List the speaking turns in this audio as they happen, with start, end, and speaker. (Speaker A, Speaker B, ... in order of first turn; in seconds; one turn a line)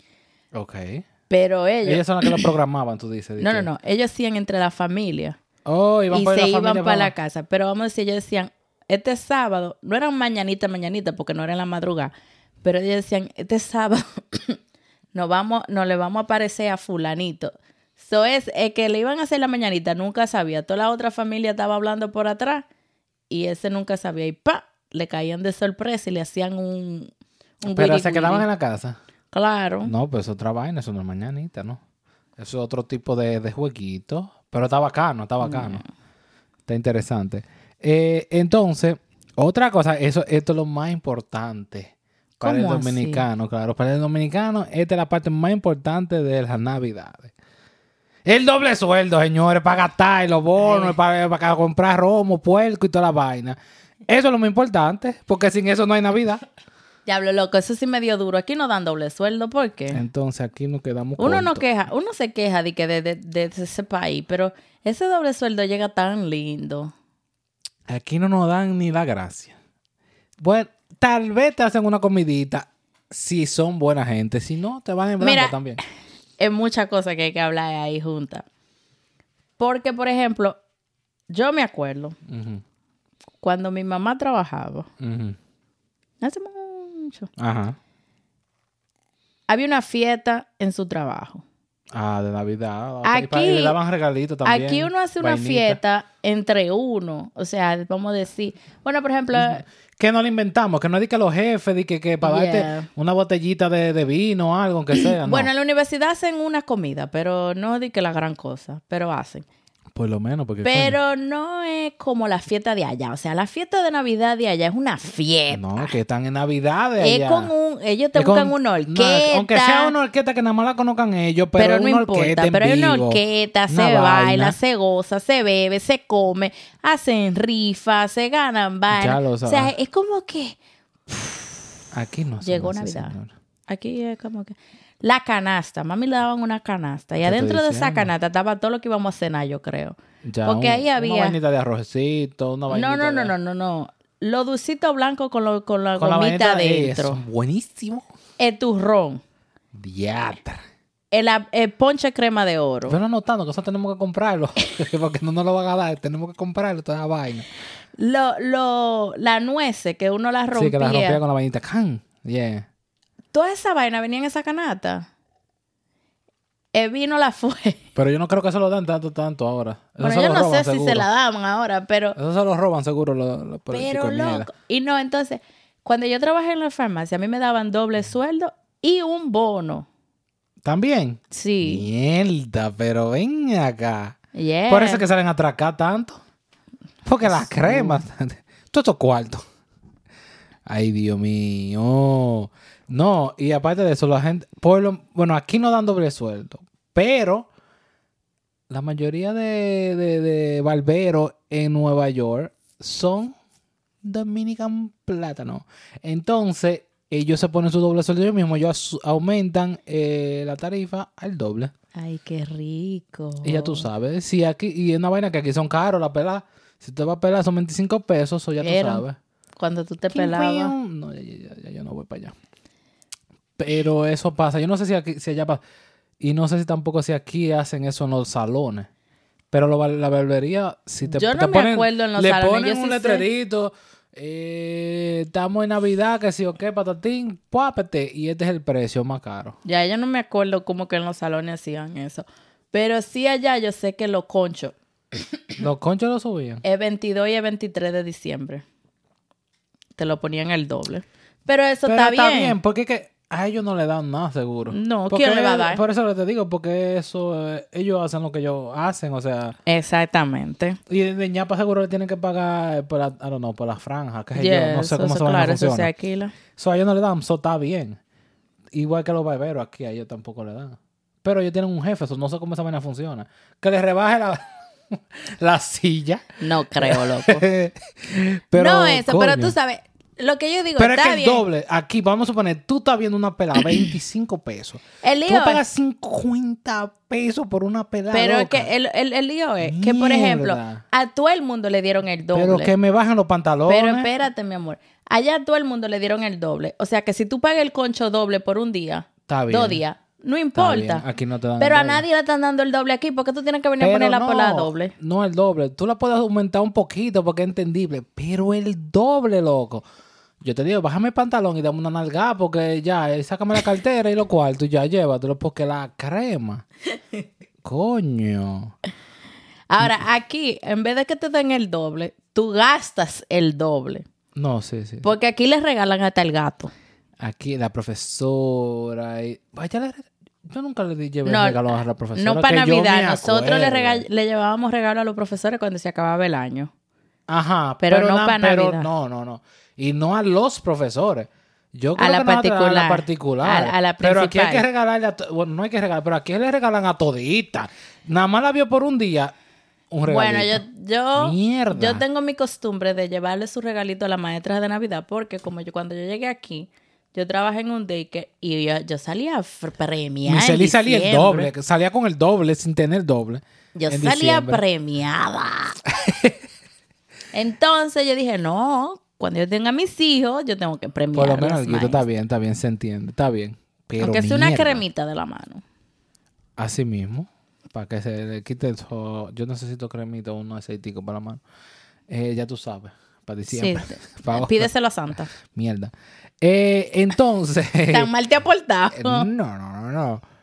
Speaker A: 0.5-1.1
Speaker B: 1.3-2.5
Speaker A: 1.9-3.7
Speaker B: 3.4-5.4
Speaker A: 5.7-7.1
Speaker B: 6.1-14.6
Speaker B: 15.1-22.6
Speaker B: 23.3-27.1
Speaker B: 27.6-28.5
Speaker A: 27.7-29.0
Speaker B: 29.3-29.9
Speaker A: 29.9-31.8
Speaker A: 32.4-35.8
Speaker B: 35.4-35.9
Speaker A: 36.7-47.3
Speaker B: 42.4-43.3
Speaker A: 48.2-56.4
Speaker B: 50.6-51.0
Speaker B: 57.1-60.0
Speaker A: 59.9-61.6
Speaker B: 61.2-66.9
Speaker A: 67.9-69.6
Speaker A: 70.4-75.8
Speaker B: 75.2-75.6
Speaker B: 76.4-78.5
Speaker B: 79.6-80.6
Speaker B: 81.3-82.2
Speaker A: 82.3-82.6
Speaker B: 83.4-84.9
Speaker A: 85.0-85.4
Speaker B: 86.2-87.3
Speaker A: 87.4-87.8
Speaker B: 89.5-91.4
Speaker A: 91.9-95.8
Speaker B: 93.0-93.8
Speaker B: 94.5-99.6
Speaker A: 99.3-105.5
Speaker B: 102.2-102.9
Speaker B: 105.2-109.5
Speaker A: 109.9-111.0
Speaker B: 110.6-115.9
Speaker A: 115.5-117.5
Speaker B: 117.0-119.9
Speaker A: 118.2-124.6
Speaker B: 121.6-130.6
Speaker A: 128.9-129.7
Speaker B: 131.1-131.7
Speaker A: 131.9-133.3
Speaker B: 132.4-133.2
Speaker B: 133.7-141.4
Speaker A: 137.2-138.1
Speaker A: 140.2-143.3
Speaker B: 142.7-147.2
Speaker A: 146.0-148.1
Speaker B: 148.4-149.2
Speaker A: 149.7-150.6
Speaker B: 151.1-153.0
Speaker A: 152.9-157.5
Speaker B: 158.0-161.2
Speaker A: 160.5-162.7
Speaker B: 163.3-165.1
Speaker B: 166.7-167.8
Speaker A: 168.0-171.1
Speaker B: 170.0-172.2
Speaker A: 172.2-174.5
Speaker B: 173.7-179.9
Speaker A: 180.6-184.2
Speaker B: 181.3-181.8
Speaker B: 184.3-185.0
Speaker A: 184.7-186.2
Speaker A: 187.1-189.4
Speaker B: 187.2-188.0
Speaker A: 190.7-197.5
Speaker A: 198.7-203.3
Speaker A: 204.0-211.7
Speaker B: 211.9-213.9
Speaker A: 213.4-219.2
Speaker B: 218.6-219.0
Speaker B: 219.6-220.8
Speaker A: 220.1-222.3
Speaker A: 223.6-225.6
Speaker A: 226.2-228.9
Speaker A: 229.5-239.6
Speaker B: 231.1-233.3
Speaker B: 239.7-244.8
Speaker A: 245.6-246.6
Speaker B: 246.6-248.6
Speaker B: 250.0-252.6
Speaker A: 251.8-259.6
Speaker B: 254.7-255.8
Speaker B: 259.7-260.8
Speaker A: 260.9-265.9
Speaker B: 264.4-266.4
Speaker A: 266.6-268.0
Speaker A: 268.7-276.2
Speaker B: 276.4-277.4
Speaker A: 276.8-279.5
Speaker B: 278.6-281.4
Speaker A: 280.8-288.7
Speaker B: 285.0-285.6
Speaker B: 288.1-292.7
Speaker A: 289.6-290.8
Speaker A: 292.3-294.1
Speaker B: 293.7-301.0
Speaker A: 299.3-299.8
Speaker A: 300.6-302.0
Speaker B: 301.6-304.9
Speaker A: 303.8-309.8
Speaker A: 310.4-316.6
Speaker A: 317.6-318.7
Speaker B: 319.7-324.1
Speaker A: 324.4-325.1
Speaker B: 325.0-326.7
Speaker A: 327.2-334.1
Speaker B: 331.2-336.7
Speaker A: 337.3-349.3
Speaker B: 337.8-338.9
Speaker B: 342.0-344.6
Speaker A: 349.9-350.6
Speaker B: 350.1-361.5
Speaker A: 351.2-352.0
Speaker A: 360.3-364.6
Speaker B: 363.8-365.8
Speaker A: 365.9-366.4
Speaker B: 367.3-372.0
Speaker A: 371.1-374.8
Speaker B: 374.0-375.6
Speaker A: 376.6-381.4
Speaker A: 382.1-384.7
Speaker B: 383.5-385.3
Speaker A: 385.3-388.1
Speaker B: 387.9-389.3
Speaker A: 388.9-390.2